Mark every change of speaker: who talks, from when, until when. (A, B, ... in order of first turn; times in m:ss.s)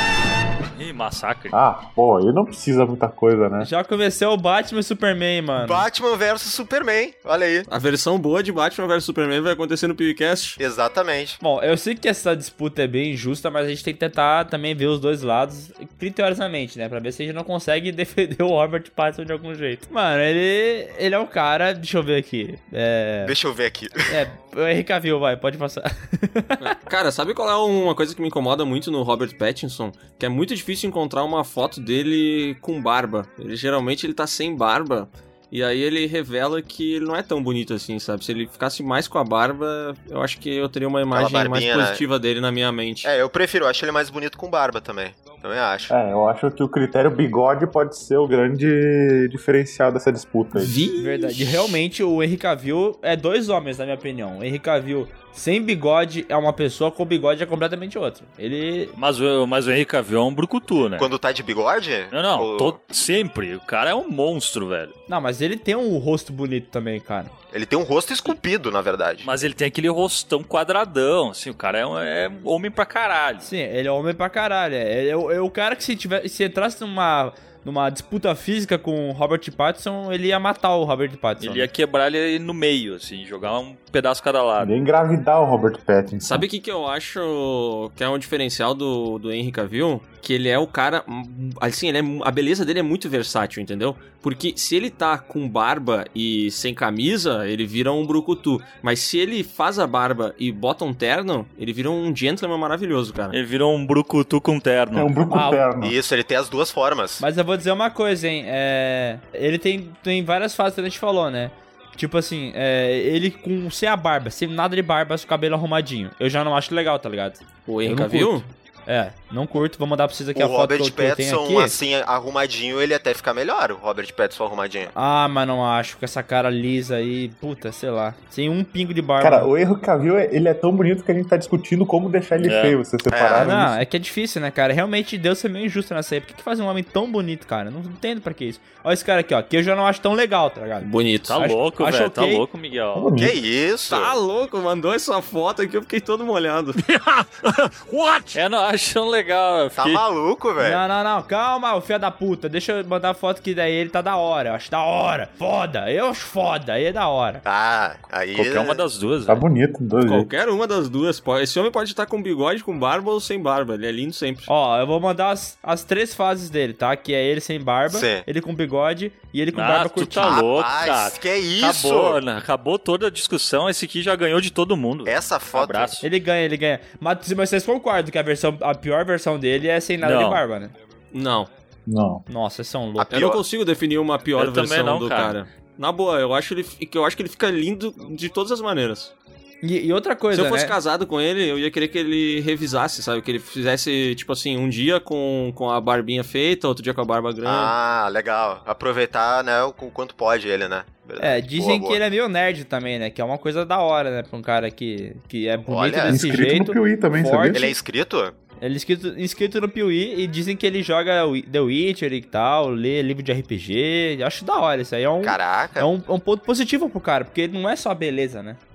0:00.7-0:01.6 A
0:01.5-0:03.7 B
0:03.6-0:05.8 C
0:05.6-0:07.7 D
0:07.7-0:10.6 E
0:10.6-0:11.4 D
0:11.4-0:23.3 C
0:23.2-0:24.1 D
0:24.1-0:26.6 C
0:26.6-0:43.1 E
0:41.1-0:42.0 D
0:43.0-0:45.9 D
0:45.9-0:50.8 B
0:50.5-0:51.8 E
0:51.0-0:58.9 C
0:59.0-1:01.1 A
1:01.0-1:02.8 D
1:02.1-1:04.9 A
1:05.1-1:07.3 C
1:07.5-1:09.3 D
1:09.2-1:13.5 A
1:13.4-1:21.7 C
1:21.4-1:24.7 A
1:24.6-1:26.4 B
1:26.2-1:43.4 E
1:43.3-1:45.1 A
1:44.9-1:46.0 B
1:45.3-1:45.6 C
1:45.8-1:47.2 D
1:47.2-2:01.8 C
1:57.7-1:58.5 E
2:00.3-2:04.9 D
2:04.9-2:09.5 C
2:09.2-2:13.8 B
2:12.4-2:12.8 A
2:13.1-2:13.5 D
2:13.4-2:22.4 C
2:20.8-2:21.4 E
2:21.3-2:23.1 A
2:22.9-2:23.4 B
2:23.2-2:24.2 D
2:23.9-2:26.8 E
2:26.8-2:30.0 A
2:29.8-2:30.8 D
2:30.6-2:37.4 C
2:37.4-2:38.8 D
2:38.3-2:39.4 A
2:39.2-2:40.3 B
2:40.0-2:44.5 E
2:44.5-2:50.4 C
2:47.9-2:48.2 D
2:49.5-2:56.0 A
2:50.2-2:52.2 D
2:55.0-2:56.0 D
2:56.0-3:00.7 C
3:00.0-3:00.4 A
3:01.1-3:01.5 E
3:01.9-3:02.2 B
3:02.3-3:03.2 C
3:03.0-3:03.4 D
3:03.1-3:09.1 E
3:04.4-3:05.4 A
3:09.6-3:10.8 C
3:10.3-3:17.7 E
3:17.4-3:22.0 D
3:21.2-3:27.7 C
3:25.7-3:26.2 D
3:26.1-3:27.8 B
3:27.5-3:28.3 D
3:28.6-3:38.6 C
3:35.2-3:35.9 D